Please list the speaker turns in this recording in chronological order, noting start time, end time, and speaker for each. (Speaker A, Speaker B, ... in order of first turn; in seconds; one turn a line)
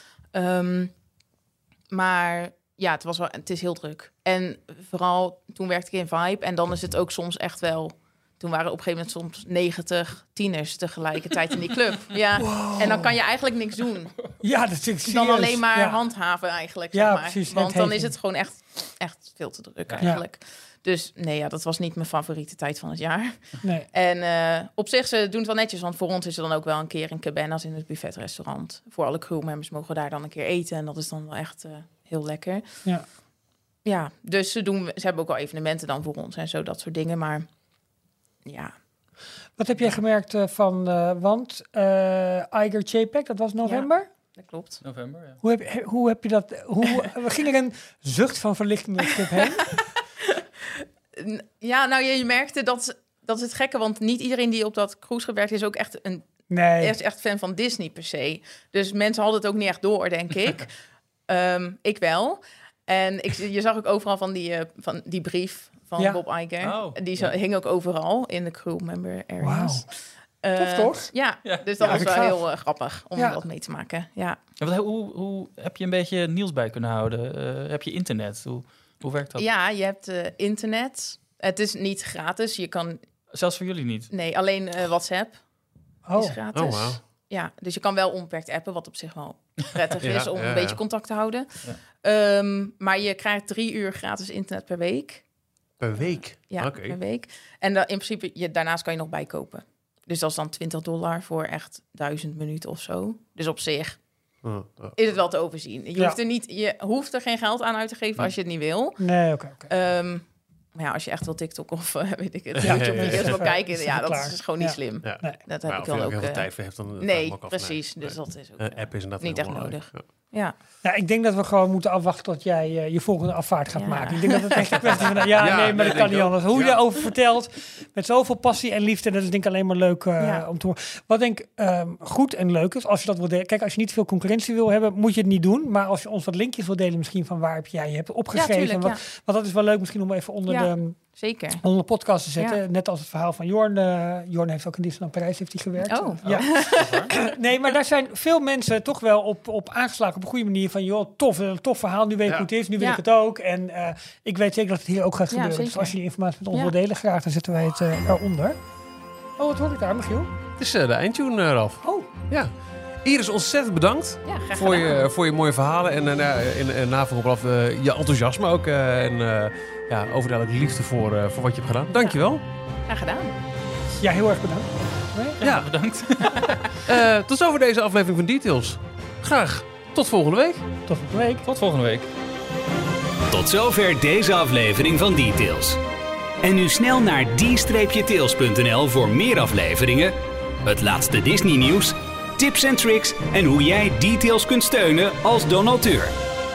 Speaker A: 0.3-0.9
Speaker A: 1.9-14.1
Speaker B: 12.4-13.2
Speaker B: 14.4-16.0
Speaker A: 15.1-32.6
Speaker B: 16.9-18.1
Speaker B: 23.6-23.9
Speaker A: 33.8-37.5
Speaker A: 38.4-38.7
Speaker B: 39.6-44.0
Speaker A: 43.6-44.8
Speaker C: 44.8-45.4
Speaker B: 45.4-49.8
Speaker A: 50.2-56.3
Speaker B: 56.5-57.0
Speaker A: 56.8-60.7
Speaker A: 61.3-69.9
Speaker C: 66.6-67.3
Speaker B: 69.4-69.8
Speaker A: 70.4-74.4
Speaker B: 70.5-71.1
Speaker C: 71.4-72.1
Speaker B: 71.8-72.5
Speaker C: 74.6-79.5
Speaker A: 79.3-83.0
Speaker C: 83.3-84.1
Speaker A: 84.1-85.4
Speaker B: 86.0-86.4
Speaker A: 86.2-95.2
Speaker D: 86.5-87.0
Speaker D: 90.0-90.8
Speaker D: 95.8-97.0
Speaker A: 96.0-104.0
Speaker D: 104.4-104.9
Speaker A: 104.9-109.0
Speaker B: 109.0-109.7
Speaker A: 109.7-110.2
Speaker A: 110.8-120.5
Speaker D: 112.5-113.5
Speaker B: 112.6-115.4
Speaker D: 115.0-120.0
Speaker B: 120.8-141.0
Speaker A: 123.7-125.1
Speaker D: 125.3-126.8
Speaker A: 138.3-139.0
Speaker A: 140.5-141.6
Speaker B: 141.6-158.6
Speaker A: 145.8-147.3
Speaker A: 155.3-155.9
Speaker B: 159.4-160.3
Speaker D: 160.6-162.5
Speaker B: 161.8-162.1
Speaker D: 163.0-172.4
Speaker A: 164.2-165.1
Speaker A: 172.9-173.4
Speaker B: 174.0-175.4
Speaker C: 175.4-176.6
Speaker D: 175.4-175.7
Speaker D: 176.8-180.6
Speaker B: 180.9-181.4
Speaker C: 181.4-182.1
Speaker E: 183.3-185.8
Speaker E: 186.4-196.1